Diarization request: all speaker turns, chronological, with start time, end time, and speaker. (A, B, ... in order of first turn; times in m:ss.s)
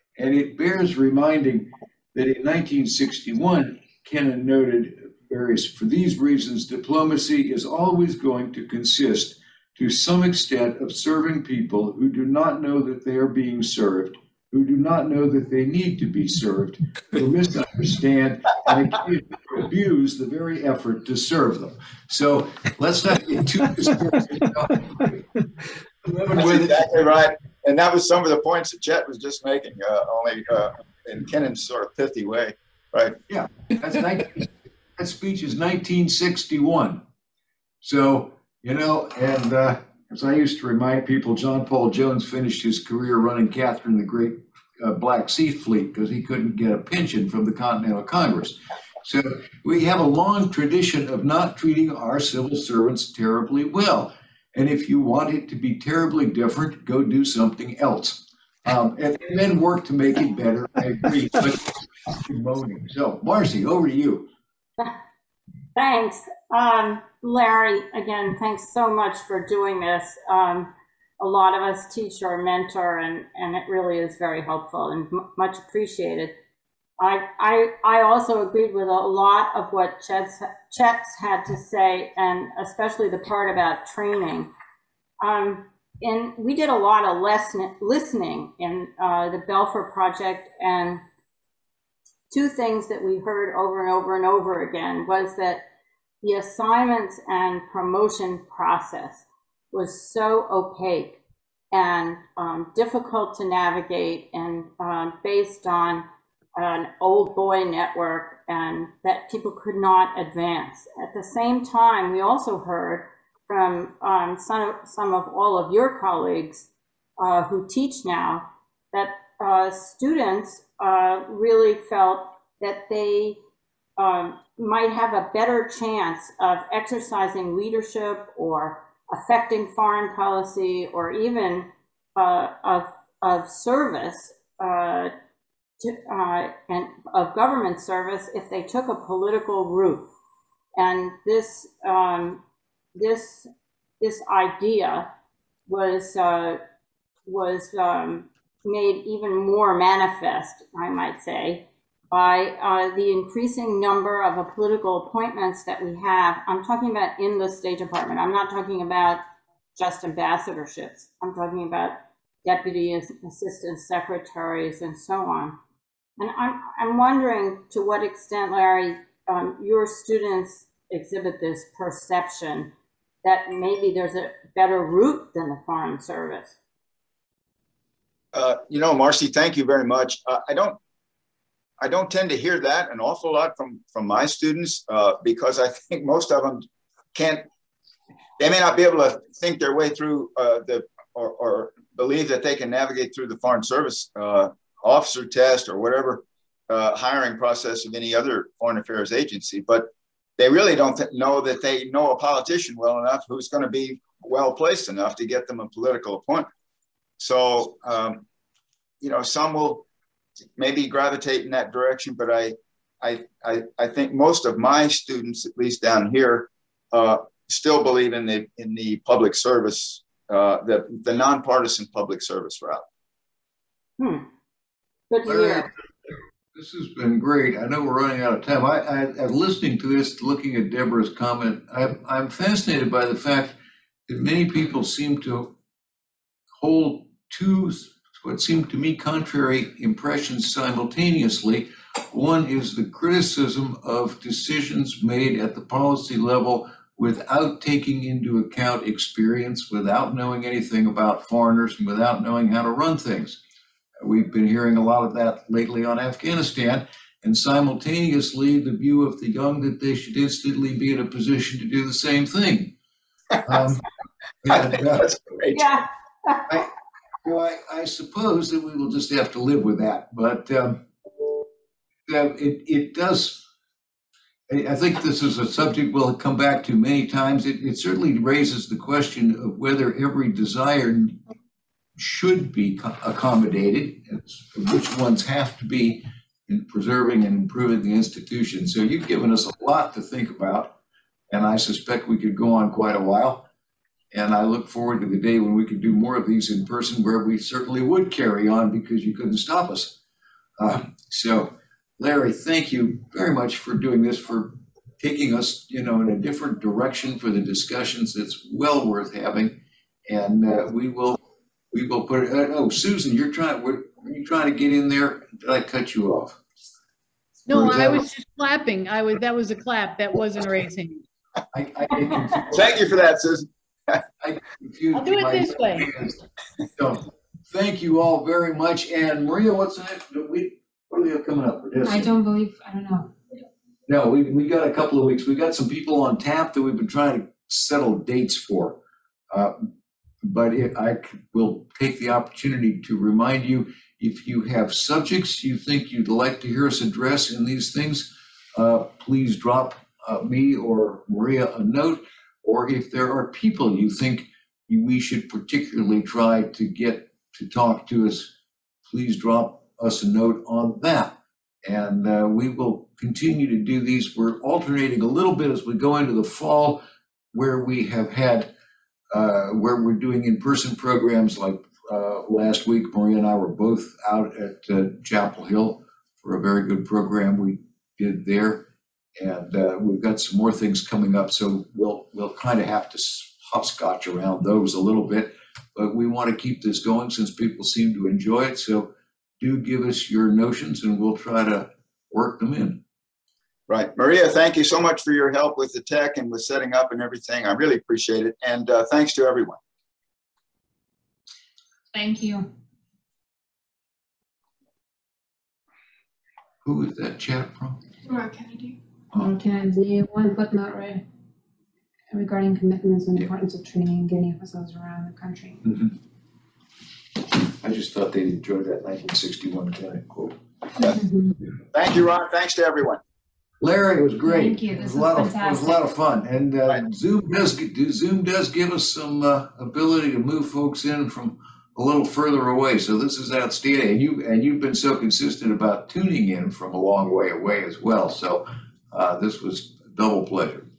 0:00.2-0:25.3 A
0:26.0-0:26.8 A
0:26.3-0:33.2 B
0:33.3-0:37.0 A
0:37.8-1:04.3 A
1:05.7-1:16.3 C
1:17.0-1:24.5 C
1:25.2-1:31.0 C
1:32.3-1:35.6 C
1:36.2-1:41.2 C
1:41.7-2:03.4 C
2:04.0-2:15.1 C
2:15.8-2:20.1 C
2:20.8-2:22.4 C
2:22.9-2:23.5 C
2:24.0-2:25.1 C
2:25.7-2:26.6 C
2:27.2-2:39.2 C
2:39.8-2:45.6 C
2:46.2-2:52.7 C
2:53.2-2:56.6 C
2:58.3-3:00.8 B
3:01.8-3:07.4 B
3:08.4-3:26.5 B
3:27.2-3:28.2 B
3:29.0-3:29.8 B
3:30.6-3:42.8 B
3:44.0-3:44.2 C
3:45.1-3:45.7 C
3:45.2-3:45.7 A
3:46.5-3:53.6 A
3:54.1-3:55.5 A
3:56.6-4:13.4 A
4:14.0-4:22.7 A
4:23.4-4:23.8 A
4:24.4-4:25.1 A
4:24.5-4:25.7 B
4:25.5-4:26.4 C
4:27.2-4:30.8 A
4:32.1-4:33.4 A
4:34.5-4:41.2 A
4:42.0-4:50.7 A
4:51.3-4:53.4 A
4:54.1-5:00.0 A
5:00.6-5:11.2 A
5:11.7-5:16.4 A
5:17.5-5:21.0 D
5:17.5-5:18.1 A
5:21.5-5:22.8 A
5:22.5-5:24.0 B
5:24.2-5:32.1 A
5:24.9-5:25.9 D
5:31.8-5:33.1 E
5:33.9-5:38.8 A
5:39.3-5:39.7 A
5:40.2-5:58.3 A
5:58.8-6:08.5 A
6:09.1-6:18.6 A
6:19.2-6:32.8 A
6:33.7-6:39.6 B
6:41.9-6:42.5 E
6:46.6-6:47.8 A
6:49.1-6:51.0 E
6:52.1-6:55.6 E
6:55.6-6:55.9 A
6:57.6-7:00.4 A
7:00.8-7:01.4 E
7:01.7-7:03.0 B
7:03.6-7:20.7 A
7:04.2-7:05.8 E